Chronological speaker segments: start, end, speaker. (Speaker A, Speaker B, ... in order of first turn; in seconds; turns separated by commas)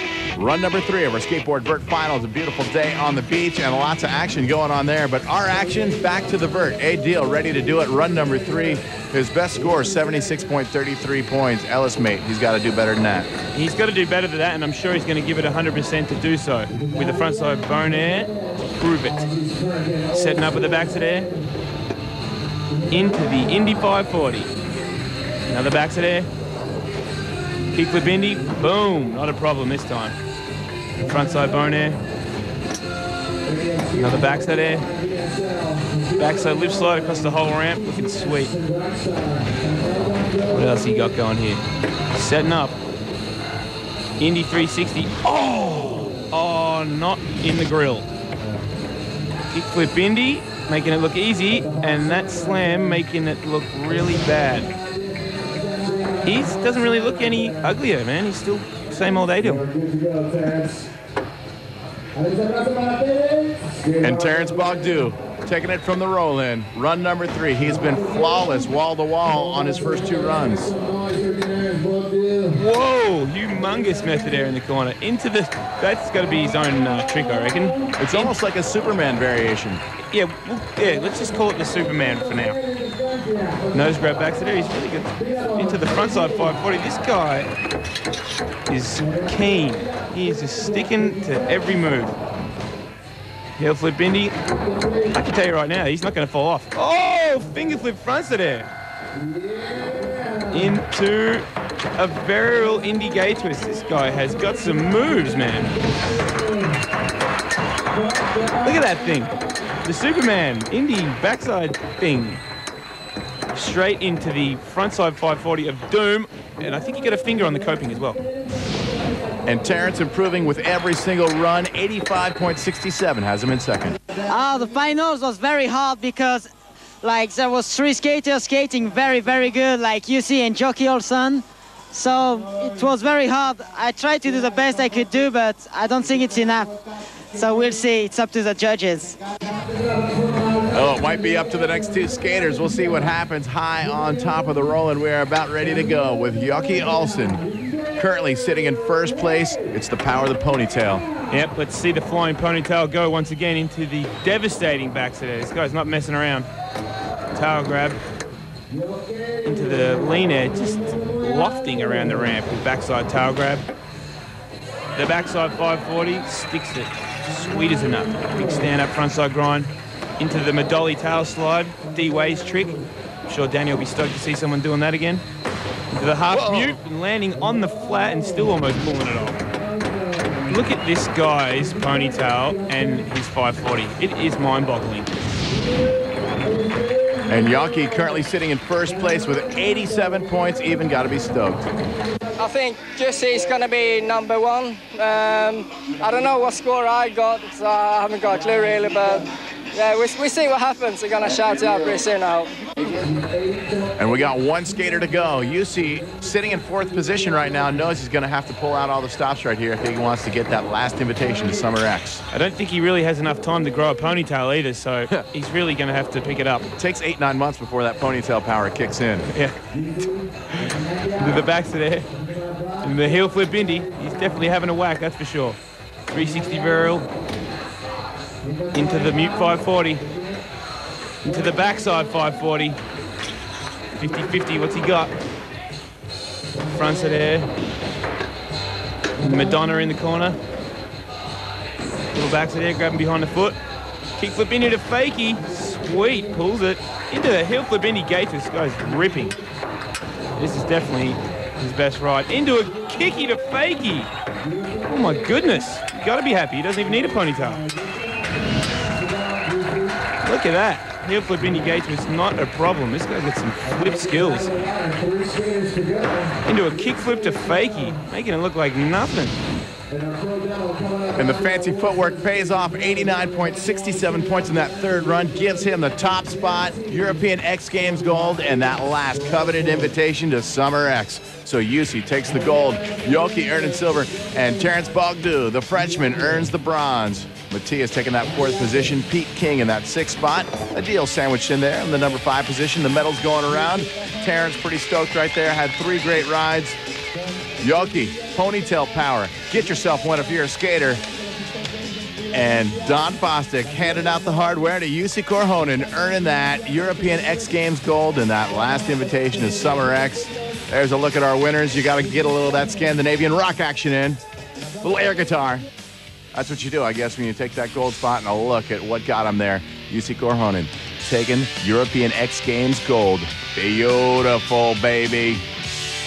Speaker A: 0.4-13.3, Speaker B: 13.5-19.3, Speaker B: 20.1-21.3, Speaker B: 22.9-24.5, Speaker B: 25.5-26.3, Speaker B: 27.7-30.2, Speaker B: 31.0-32.0, Speaker B: 33.9-34.9, Speaker B: 36.2-38.6, Speaker B: 40.4-42.8, Speaker B: 44.2-48.1, Speaker B: 49.5-54.7, Speaker B: 56.2-59.7, Speaker A: 64.0-70.8, Speaker B: 72.5-78.3, Speaker A: 78.0-79.8, Speaker B: 80.1-82.6, Speaker B: 83.7-87.5, Speaker B: 88.7-92.2, Speaker B: 93.6-94.4, Speaker B: 95.1-98.7, Speaker B: 100.5-101.5, Speaker B: 102.0-105.8, Speaker B: 108.6-112.4, Speaker B: 113.5-118.2, Speaker A: 119.5-124.0, Speaker C: 124.3-126.5, Speaker C: 127.0-136.8, Speaker C: 137.3-139.2, Speaker A: 140.7-147.4, Speaker A: 147.9-151.1, Speaker B: 151.3-156.5, Speaker B: 157.3-158.0, Speaker B: 159.4-163.7, Speaker B: 164.9-175.2, Speaker B: 175.9-179.4, Speaker A: 176.3-176.8, Speaker B: 180.5-185.1, Speaker A: 187.3-191.7, Speaker D: 192.4-203.1, Speaker A: 204.0-212.2, Speaker B: 212.3-216.7, Speaker A: 216.8-219.3, Speaker B: 220.5-222.1, Speaker B: 222.8-225.6, Speaker B: 226.1-227.1, Speaker B: 228.7-230.1, Speaker B: 231.2-232.8, Speaker B: 233.9-235.2, Speaker B: 236.7-237.5, Speaker B: 239.2-240.4, Speaker B: 242.1-243.6, Speaker B: 244.2-249.4, Speaker B: 250.4-254.1, Speaker B: 254.8-257.6, Speaker B: 260.2-264.6, Speaker B: 266.4-269.4, Speaker A: 271.1-296.8, Speaker A: 297.6-301.0, Speaker A: 302.3-314.2, Speaker A: 314.8-315.7, Speaker A: 316.3-325.4